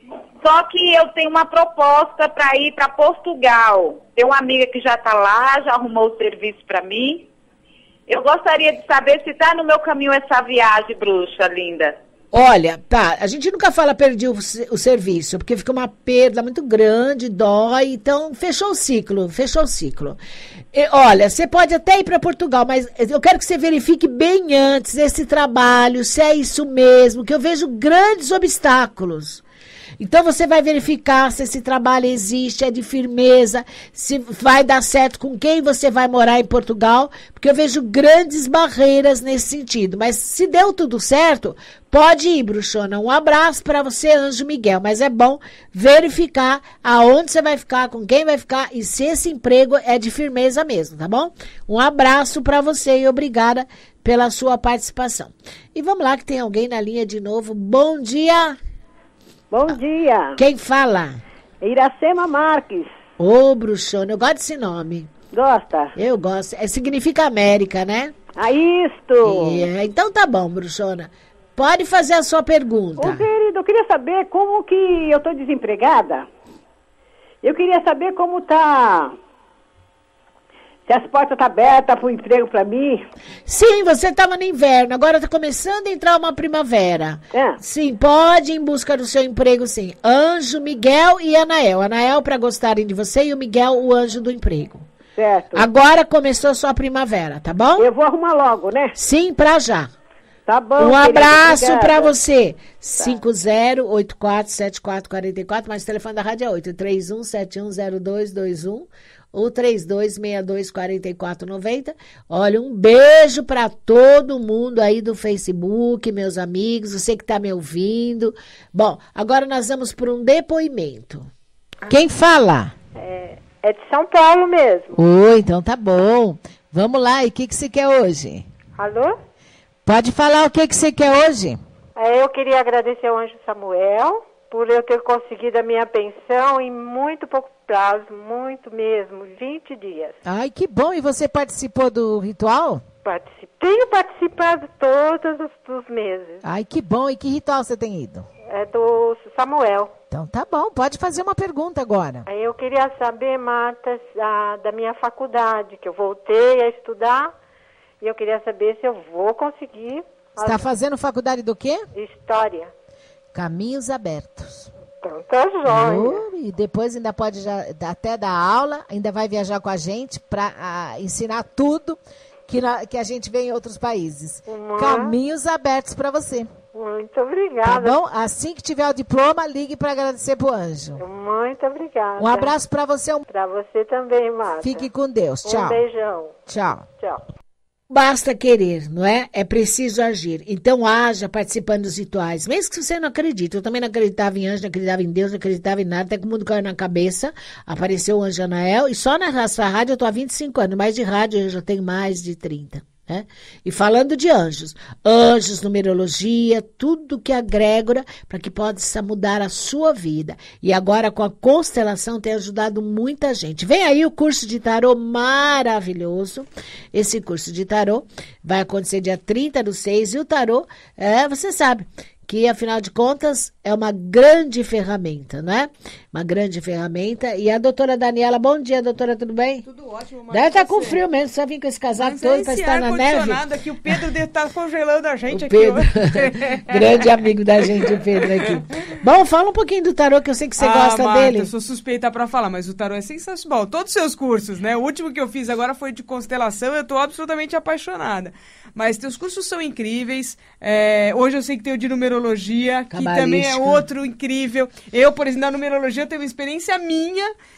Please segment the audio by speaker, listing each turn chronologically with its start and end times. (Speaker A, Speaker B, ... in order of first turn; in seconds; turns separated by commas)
Speaker A: 0.4-7.3, Speaker A: 8.1-12.0, Speaker B: 12.3-20.2, Speaker B: 20.7-29.4, Speaker B: 30.0-58.6, Speaker C: 59.5-60.4, Speaker B: 60.4-61.2, Speaker C: 61.6-62.9, Speaker B: 63.2-65.1, Speaker C: 65.3-66.0, Speaker B: 66.0-68.1, Speaker C: 68.4-69.7, Speaker B: 69.2-73.3, Speaker C: 73.0-76.3, Speaker C: 77.4-79.2, Speaker C: 80.9-83.0, Speaker B: 83.5-94.9, Speaker C: 95.2-95.7, Speaker B: 95.5-97.9, Speaker C: 97.8-99.0, Speaker B: 99.0-99.9, Speaker C: 100.5-102.1, Speaker B: 100.8-121.3, Speaker B: 121.9-122.7, Speaker D: 123.0-125.0, Speaker B: 125.0-128.5, Speaker D: 128.8-129.2, Speaker B: 129.9-131.6, Speaker D: 132.0-140.2, Speaker B: 140.2-142.8, Speaker D: 143.1-146.4, Speaker B: 146.4-148.3, Speaker D: 148.5-149.9, Speaker B: 150.1-152.3, Speaker D: 152.3-157.3, Speaker D: 158.0-160.6, Speaker B: 160.4-161.9, Speaker D: 161.9-162.7, Speaker B: 163.3-164.7, Speaker D: 165.0-166.2, Speaker B: 165.7-176.5, Speaker D: 174.5-175.2, Speaker D: 176.7-178.0, Speaker B: 177.6-181.0, Speaker D: 181.0-182.5, Speaker B: 182.2-183.2, Speaker D: 183.3-184.9, Speaker B: 184.6-185.8, Speaker D: 185.4-186.4, Speaker B: 186.5-186.9, Speaker B: 187.9-229.7, Speaker E: 229.7-231.0, Speaker B: 230.3-234.0, Speaker E: 232.0-237.0, Speaker B: 235.3-241.5, Speaker E: 240.6-257.3, Speaker B: 252.9-253.8